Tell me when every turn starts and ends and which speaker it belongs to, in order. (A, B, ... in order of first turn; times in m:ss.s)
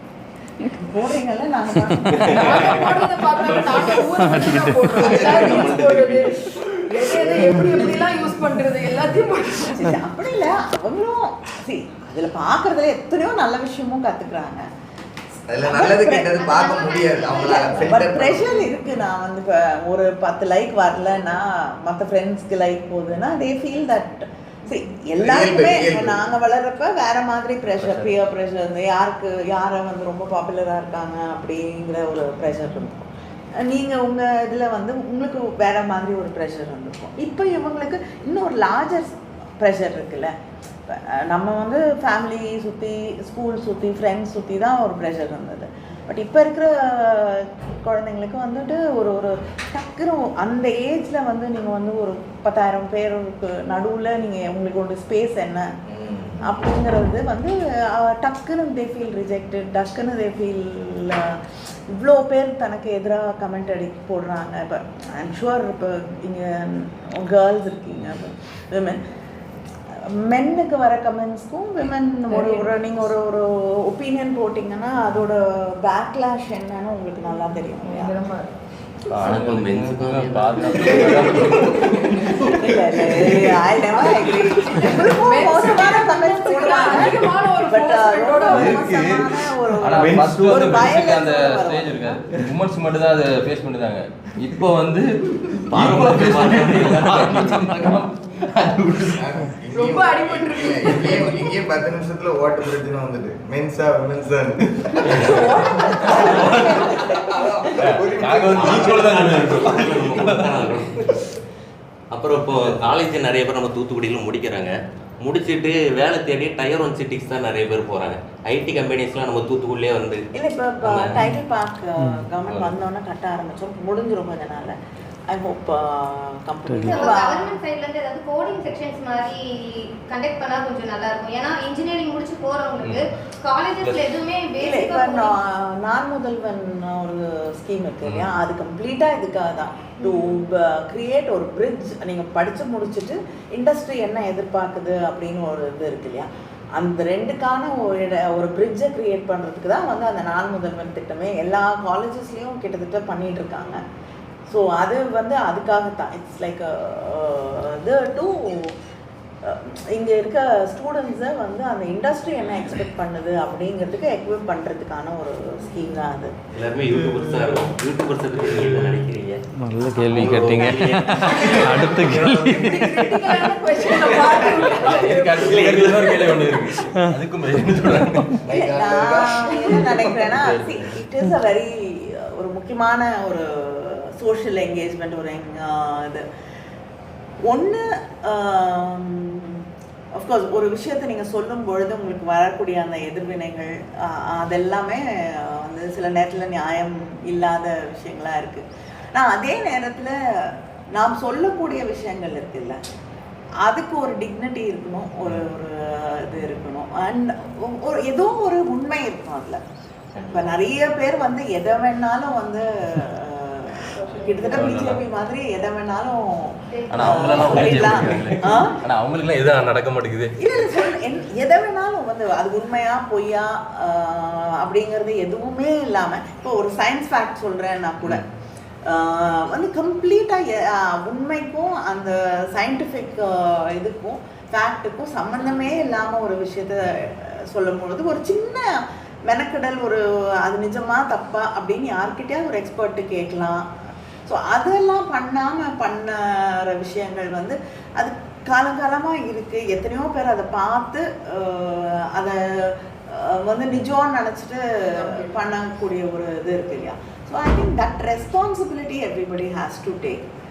0:00.6-0:03.6 A
0:02.2-0:02.6 B
0:02.3-0:09.8 C
0:03.5-0:03.8 B
0:04.2-0:05.3 D
0:05.0-0:05.6 E
0:05.0-0:06.2 B
0:06.9-0:07.8 E
0:09.6-0:14.7 A
0:15.5-0:18.6 E
0:15.6-0:40.3 A
0:16.3-0:17.7 F
0:25.2-0:26.2 E
0:40.9-0:55.7 A
0:56.4-1:09.0 A
1:10.0-1:18.1 A
1:12.3-1:12.7 C
1:17.3-1:18.5 C
1:19.1-1:23.5 B
1:19.2-1:21.8 G
1:22.5-1:32.2 A
1:24.7-1:28.9 C
1:28.4-1:39.3 B
1:35.7-1:37.7 G
1:39.1-1:45.3 E
1:39.7-1:41.5 C
1:45.1-1:45.4 B
1:45.2-1:47.5 C
1:46.0-1:46.5 A
1:46.4-1:50.1 E
1:46.5-1:46.8 B
1:47.8-1:51.0 G
1:48.3-1:50.5 B
1:52.1-2:00.2 G
2:00.3-2:04.8 A
2:00.8-2:01.1 G
2:02.5-2:02.7 B
2:05.3-2:07.6 A
2:06.7-2:07.0 D
2:06.8-2:15.3 F
2:12.8-2:13.1 B
2:13.8-2:14.1 B
2:14.6-2:33.8 A
2:18.0-2:18.3 B
2:34.5-2:38.7 A
2:39.4-2:46.3 A
2:46.5-2:49.4 G
2:49.6-2:52.9 D
2:50.1-2:52.0 G
2:51.3-2:53.2 E
2:52.6-2:56.6 C
2:54.0-2:58.4 B
2:54.7-2:56.6 G
2:58.4-3:00.5 E
2:58.5-3:06.2 A
3:00.4-3:00.9 B
3:07.4-3:09.6 A
3:10.2-3:22.8 A
3:23.6-3:29.6 A
3:30.2-3:38.8 A
3:34.0-3:34.7 C
3:34.5-3:35.0 B
3:36.7-3:37.4 F
3:36.9-3:40.3 B
3:40.4-3:48.2 A
3:48.0-3:48.2 B
3:48.9-3:58.7 A
3:59.3-4:03.6 A
4:04.2-4:20.2 A
4:14.9-4:15.4 C